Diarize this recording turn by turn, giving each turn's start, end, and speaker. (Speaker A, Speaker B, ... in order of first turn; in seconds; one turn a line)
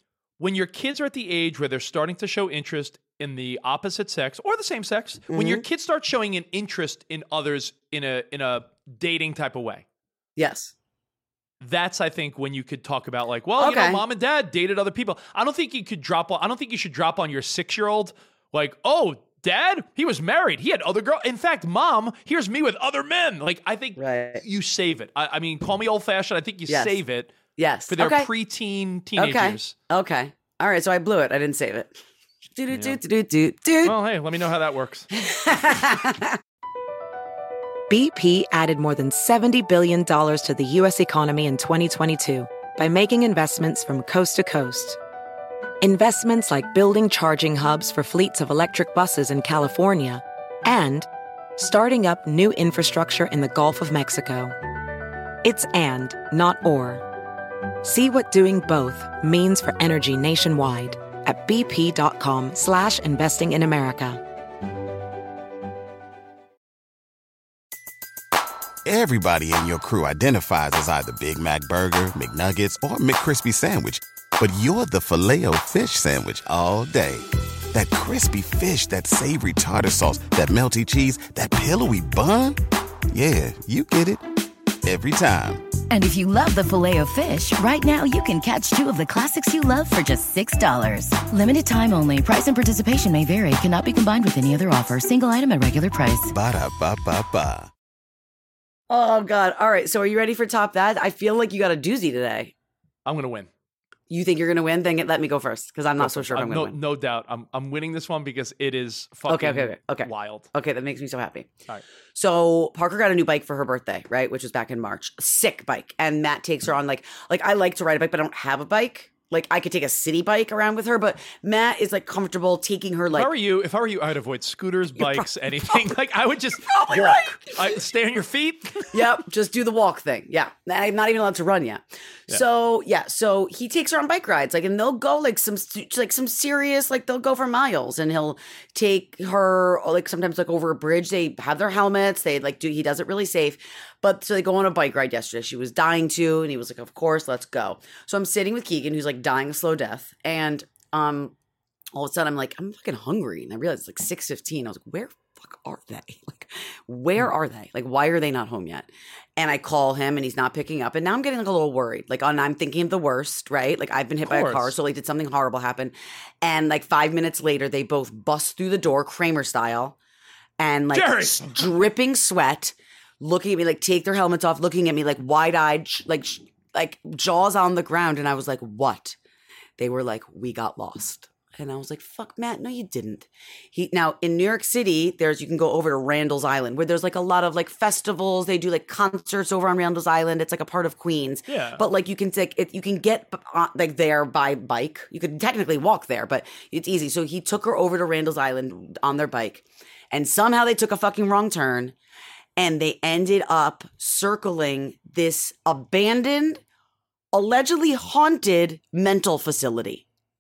Speaker A: 0.4-9.8
Speaker B: 5.3-5.6
Speaker B: 10.4-10.7
Speaker A: 11.6-27.3
Speaker B: 13.6-14.0
Speaker B: 24.0-24.4
Speaker B: 26.7-27.0
Speaker B: 27.6-28.3
Speaker A: 27.9-29.8
Speaker B: 29.2-32.0
Speaker B: 32.6-34.0
Speaker A: 32.7-33.0
Speaker A: 33.8-35.1
Speaker B: 35.1-36.4
Speaker C: 37.9-45.0
Speaker C: 45.8-54.5
Speaker C: 55.4-57.0
Speaker C: 57.8-64.2
Speaker D: 68.8-82.6
Speaker D: 83.1-84.2
Speaker D: 84.8-85.7
Speaker E: 85.9-96.3
Speaker D: 96.3-97.7
Speaker B: 98.9-102.5
Speaker A: 103.1-103.5
Speaker B: 104.1-106.8
Speaker A: 106.0-110.5
Speaker B: 109.3-111.5
Speaker B: 112.1-123.3
Speaker A: 123.1-128.9
Speaker B: 125.0-125.8
Speaker B: 126.6-127.7
Speaker B: 128.9-151.3
Speaker B: 151.9-170.0
Speaker A: 164.2-164.7
Speaker B: 170.6-179.2
Speaker A: 170.9-171.7
Speaker B: 179.8-201.9
Speaker A: 191.5-191.8
Speaker B: 202.6-206.6
Speaker B: 207.3-210.1